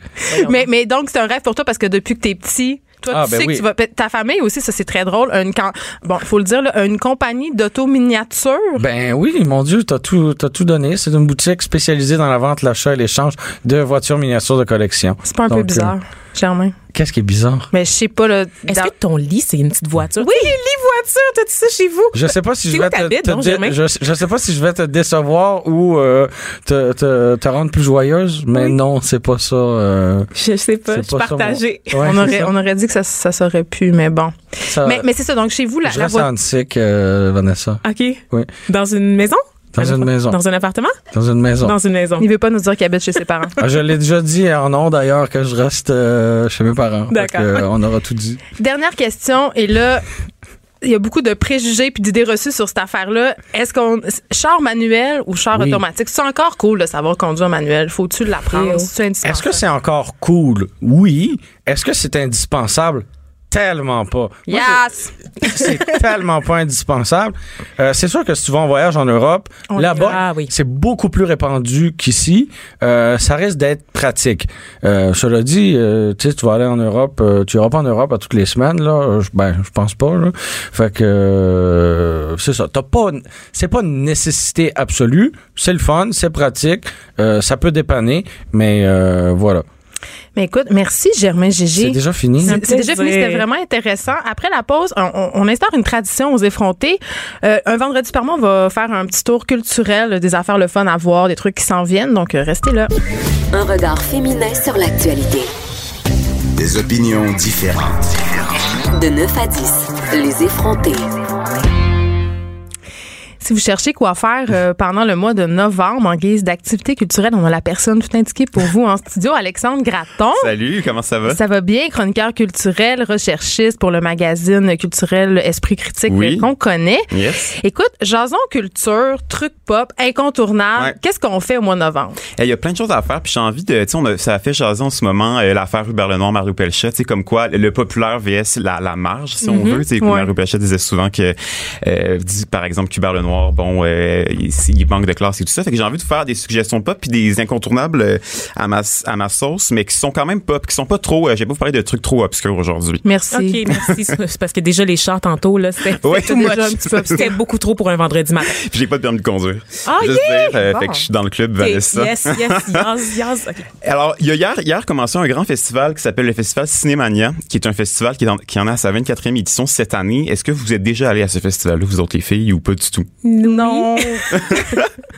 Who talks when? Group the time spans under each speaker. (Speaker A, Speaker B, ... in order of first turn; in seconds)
Speaker A: 0.3-8.8, 15.2-16.7, 17.7-18.9, 20.2-20.5, 32.0-36.3, 42.2-43.6, 48.6-50.0, 50.8-59.6, 64.5-65.7, 69.7-70.1, 90.3-102.9, 113.4-120.5, 121.3-132.2, 140.0-140.3, 153.0-153.6, 156.2-157.3, 160.7-161.0, 173.4-174.6
Speaker B: 0.3-0.7, 18.7-23.8, 30.4-32.4, 37.8-41.0, 41.6-42.3, 47.1-47.6, 58.5-58.9, 69.9-70.5, 92.5-93.4, 139.4-139.8, 153.3-158.6, 159.8-160.6, 161.6-163.7, 173.2-174.2
Speaker C: 3.1-3.6, 8.8-15.9, 16.9-17.7, 22.1-30.3, 30.9-32.4, 34.7-35.0, 35.8-38.5, 39.7-40.4, 41.1-41.8, 43.6-48.4, 55.5-55.8, 59.2-64.8, 65.4-89.6, 91.8-92.6
Speaker D: 103.5-105.5, 108.9-111.0
Speaker E: 106.6-108.6
Speaker F: 120.4-121.4, 126.1-126.5, 127.1-127.5, 132.4-153.0, 153.7-154.1, 156.0-157.2, 158.4-162.8, 163.8-173.1, 174.3-174.9